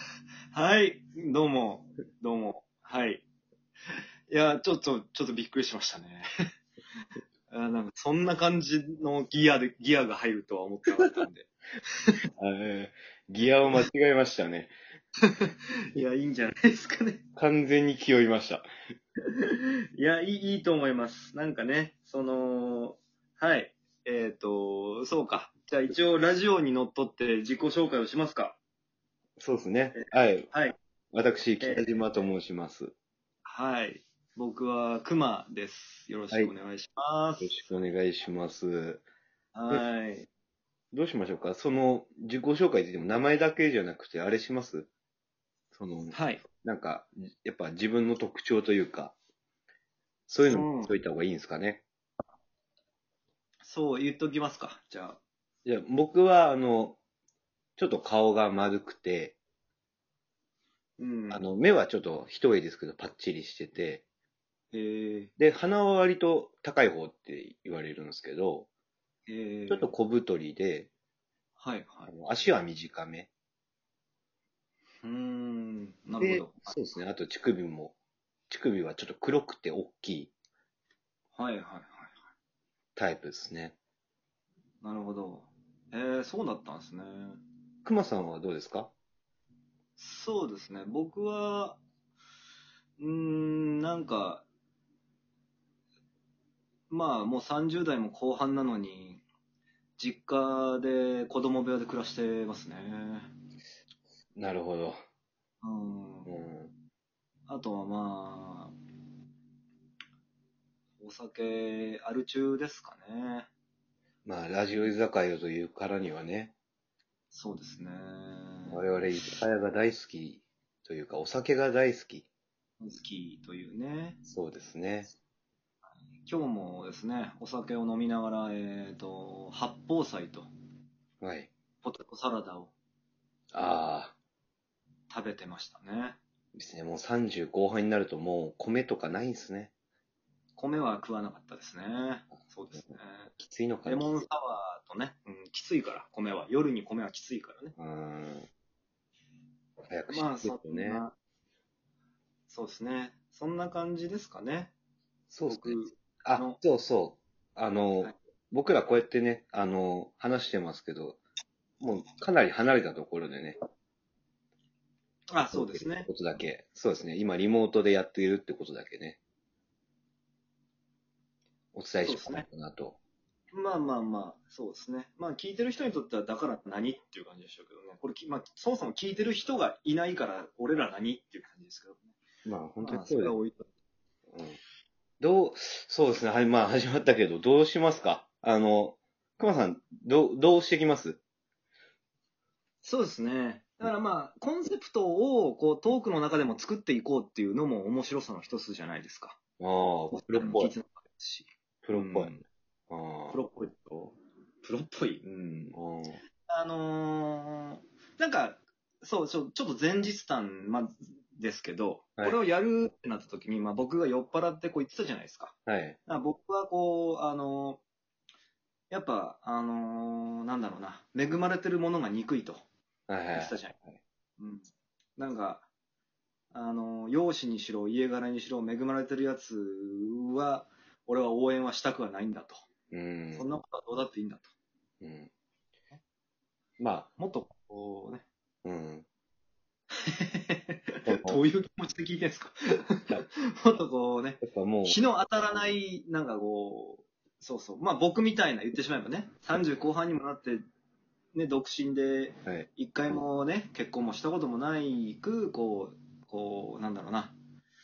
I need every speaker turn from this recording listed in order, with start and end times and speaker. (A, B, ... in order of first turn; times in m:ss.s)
0:00.5-0:03.2 A
0:04.3-0:06.2 A
0:07.5-0:11.5 A
0:12.4-0:14.7 B
0:15.3-0:17.2 A
0:17.4-0:18.6 B
0:19.3-0:28.6 A
0:29.4-0:30.5 B
0:30.0-0:30.7 A
0:31.1-0:32.9 B
0:31.6-0:32.0 A
0:33.4-0:37.8 A
0:37.4-0:39.0 B
0:39.5-0:40.3 A
0:40.9-0:44.9 B
0:45.7-0:49.2 B
0:46.1-0:46.4 A
0:50.3-0:51.8 B
0:50.4-0:50.9 A
0:53.6-0:55.2 A
0:55.6-0:57.0 B
0:57.8-0:59.4 B
1:01.0-1:01.4 A
1:01.3-1:04.0 B
1:04.7-1:05.3 A
1:05.4-1:08.7 B
1:09.3-1:09.9 A
1:09.7-1:10.9 B
1:11.6-1:12.1 A
1:12.1-1:13.3 B
1:15.0-1:16.8 A
1:16.2-1:18.0 B
1:18.5-1:20.3 B
1:21.3-1:22.2 A
1:23.0-1:23.8 B
1:24.8-1:27.4 A
1:27.8-1:28.9 B
1:30.0-1:31.8 A
1:33.0-1:34.4 A
1:36.9-1:39.2 A
1:40.0-1:43.3 A
1:44.4-1:45.0 B
1:45.6-1:46.3 A
1:46.2-1:46.7 B
1:47.5-1:48.7 A
1:51.0-1:53.5 A
1:54.2-1:56.5 B
1:57.3-1:58.8 A
1:58.7-2:02.2 B
2:02.8-2:04.2 A
2:04.2-2:05.1 B
2:06.2-2:10.5 A
2:11.2-2:11.5 B
2:11.8-2:12.7 A
2:13.5-2:14.1 B
2:15.1-2:16.2 A
2:16.5-2:19.7 B
2:20.6-2:23.3 A
2:23.4-2:24.2 B
2:23.8-2:27.7 A
2:27.8-2:28.5 B
2:29.9-2:31.0 B
2:30.1-2:31.1 A
2:32.5-2:34.7 A
2:35.3-2:41.2 B
2:35.5-2:36.6 A
2:41.8-2:43.6 B
2:45.3-2:46.1 A
2:45.5-2:49.2 B
2:51.7-2:53.0 B
2:52.0-2:52.4 A
2:53.5-3:02.2 A
3:02.4-3:03.4 B
3:02.8-3:03.7 A
3:04.3-3:04.6 B
3:05.2-3:11.2 B
3:12.8-3:19.4 A
3:19.6-3:20.7 B
3:20.1-3:22.3 A
3:21.8-3:23.4 B
3:23.3-3:25.2 A
3:25.2-3:26.2 B
3:26.5-3:35.5 A
3:35.7-3:36.0 B
3:36.0-3:37.8 A
3:38.9-3:42.6 A
3:43.1-3:44.0 B
3:43.3-3:43.8 A
3:44.4-3:44.6 A
3:45.2-3:45.6 A
3:46.5-3:52.6 A
3:52.9-3:53.5 B
3:53.3-3:54.5 A
3:55.0-3:55.3 B
3:56.8-3:57.1 B
3:57.2-3:58.2 A
3:58.6-3:59.0 B
4:00.1-4:10.6 A
4:01.0-4:01.4 B
4:04.4-4:05.0 B
4:11.3-4:17.3 A